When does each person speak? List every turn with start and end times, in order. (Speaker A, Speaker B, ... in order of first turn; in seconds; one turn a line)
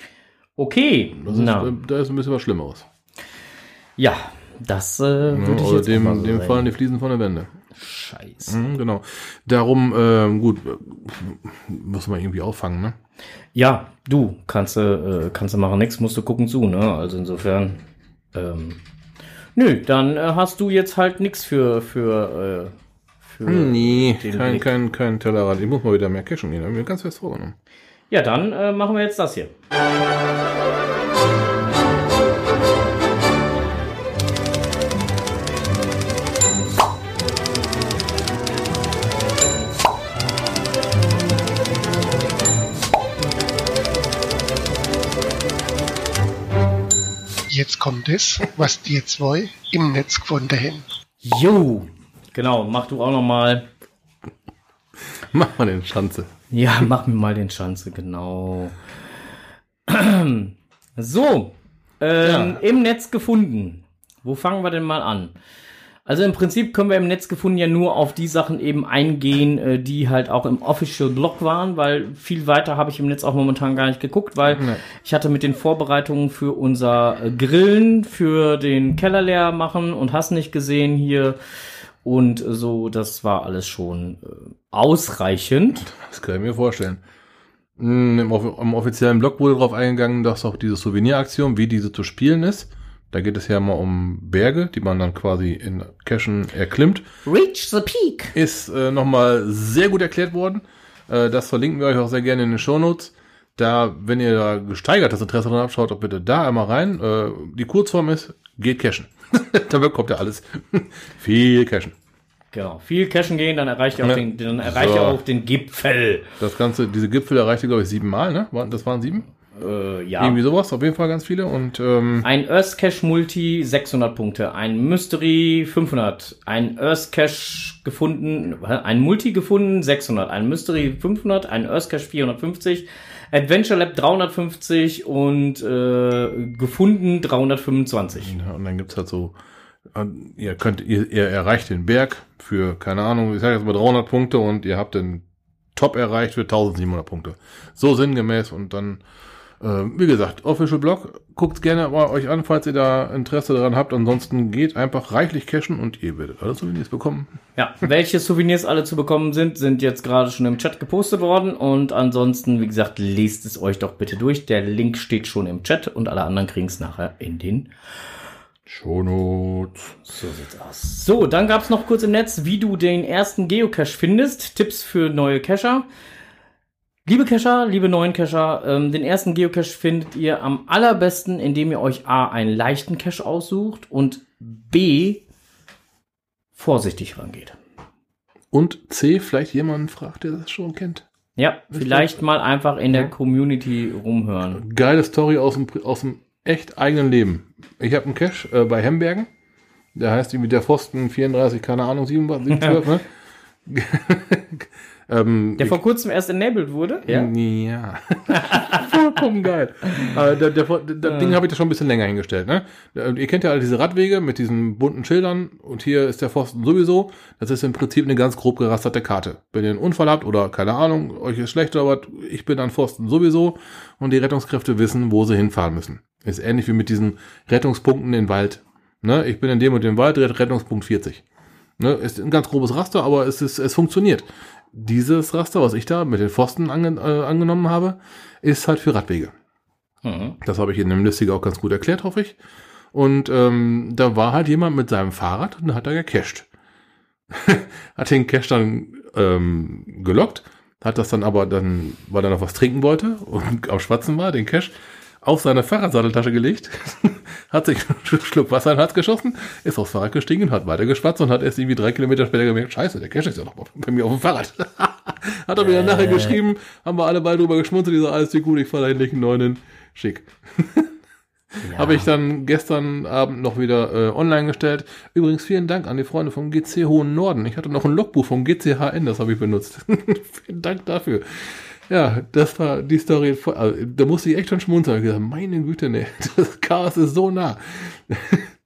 Speaker A: 0.6-1.8
Speaker B: 1.2-2.9
Speaker A: 4.0-6.7
Speaker B: 5.3-7.5
Speaker A: 7.7-8.6
Speaker B: 8.5-13.0
Speaker A: 13.6-17.8
Speaker A: 18.3-18.8
Speaker A: 19.6-22.7
Speaker A: 23.2-24.7
Speaker B: 23.4-27.6
Speaker A: 28.1-29.5
Speaker C: 47.5-50.9
Speaker A: 51.2-53.7
Speaker B: 55.2-56.3
Speaker A: 56.5-58.8
Speaker A: 59.9-65.3
Speaker B: 62.2-62.6
Speaker A: 66.1-81.4
Speaker B: 74.5-74.8
Speaker A: 82.0-85.8
Speaker B: 85.8-87.0
Speaker B: 87.8-97.0
Speaker A: 97.3-98.3
Speaker B: 98.3-112.0
Speaker A: 112.5-116.3
Speaker B: 114.0-115.2
Speaker B: 116.4-119.3
Speaker A: 119.6-120.4
Speaker B: 120.2-122.3
Speaker A: 122.2-138.3
Speaker B: 138.2-139.4
Speaker B: 139.9-149.0
Speaker B: 149.6-157.3
Speaker A: 157.6-167.7
Speaker B: 168.7-170.0
Speaker A: 170.1-175.9
Speaker A: 177.1-185.2
Speaker A: 186.6-187.6
Speaker B: 188.5-191.1
Speaker A: 191.4-194.6
Speaker B: 191.7-192.2
Speaker B: 194.5-199.3
Speaker B: 199.9-203.1
Speaker B: 203.7-205.8
Speaker A: 205.6-207.3
Speaker B: 207.1-231.2
Speaker A: 208.4-208.8
Speaker A: 211.1-211.3
Speaker B: 231.8-239.3
Speaker A: 240.0-240.4
Speaker B: 240.4-242.4
Speaker B: 242.9-246.5
Speaker B: 247.3-270.9
Speaker A: 265.6-266.4
Speaker A: 271.6-272.1
Speaker B: 271.7-288.5